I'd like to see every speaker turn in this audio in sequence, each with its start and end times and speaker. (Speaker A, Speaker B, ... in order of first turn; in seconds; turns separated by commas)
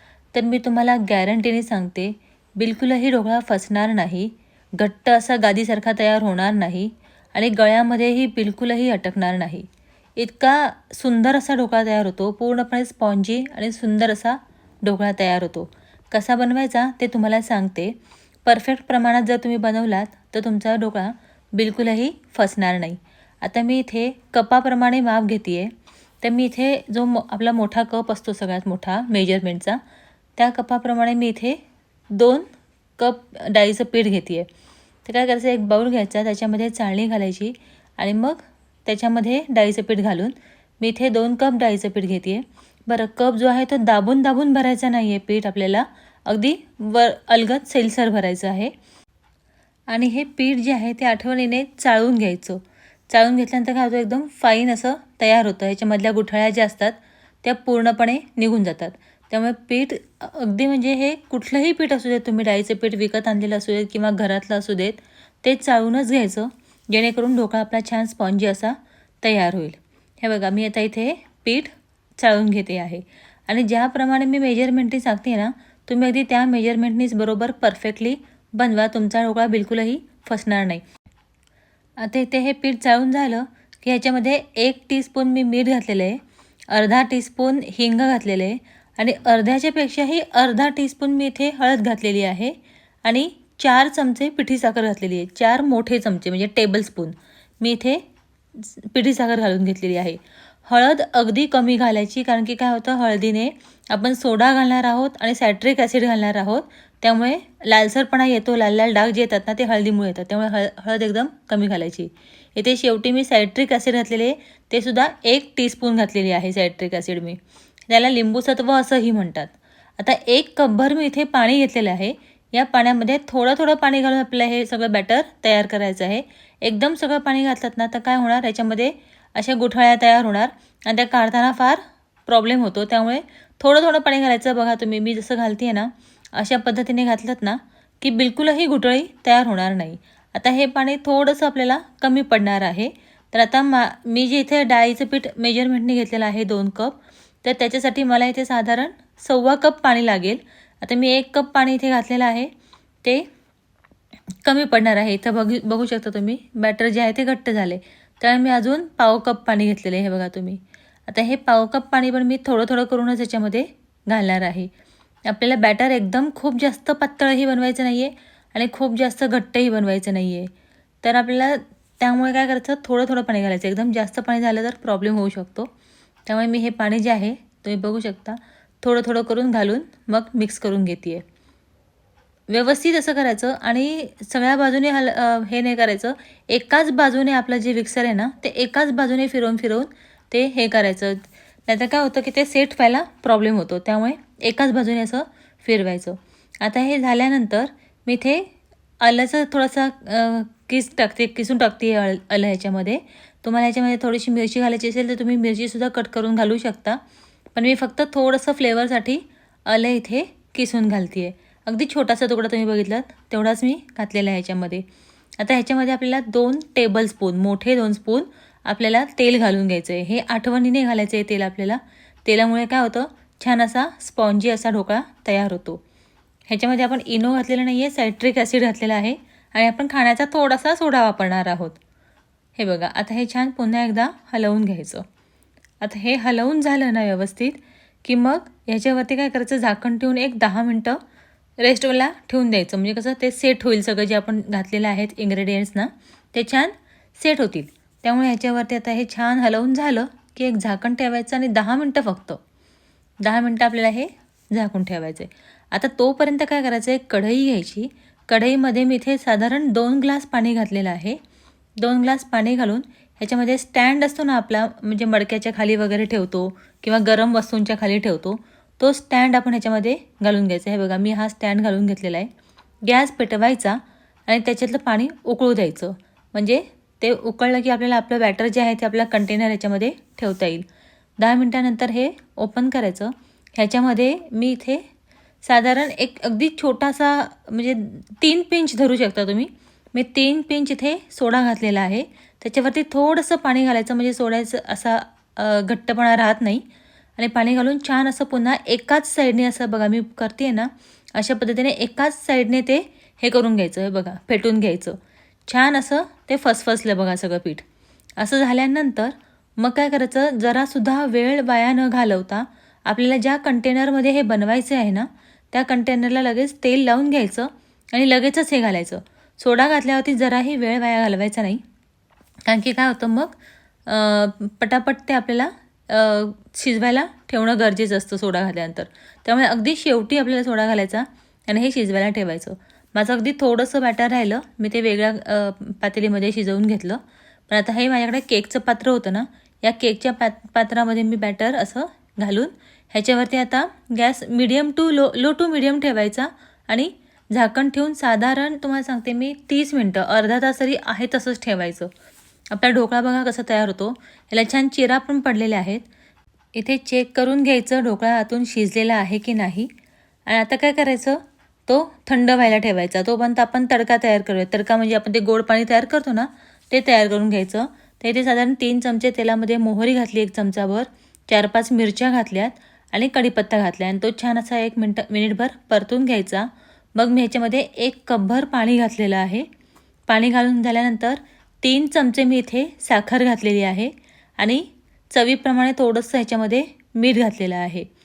Speaker A: 0.3-9.7, Speaker A: 10.2-29.8, Speaker A: 30.4-31.6, Speaker A: 32.1-32.5, Speaker A: 33.0-34.5, Speaker A: 35.0-48.7, Speaker A: 49.9-80.8, Speaker A: 82.0-98.0, Speaker A: 98.5-117.4, Speaker A: 117.9-152.5, Speaker A: 154.4-164.7, Speaker A: 165.3-170.5, Speaker A: 171.0-175.7, Speaker A: 176.3-181.2, Speaker A: 182.5-198.5, Speaker A: 199.0-207.0, Speaker A: 207.5-214.8, Speaker A: 215.4-225.8, Speaker A: 226.5-231.8, Speaker A: 232.6-235.0, Speaker A: 235.8-241.0, Speaker A: 241.6-252.4, Speaker A: 253.2-261.2, Speaker A: 261.8-272.3, Speaker A: 272.8-280.6, Speaker A: 281.2-284.8, Speaker A: 285.4-296.6, Speaker A: 297.2-307.6, Speaker A: 308.2-321.6, Speaker A: 322.5-351.9, Speaker A: 352.5-355.9, Speaker A: 356.5-359.7, Speaker A: 360.3-379.5, Speaker A: 380.1-387.9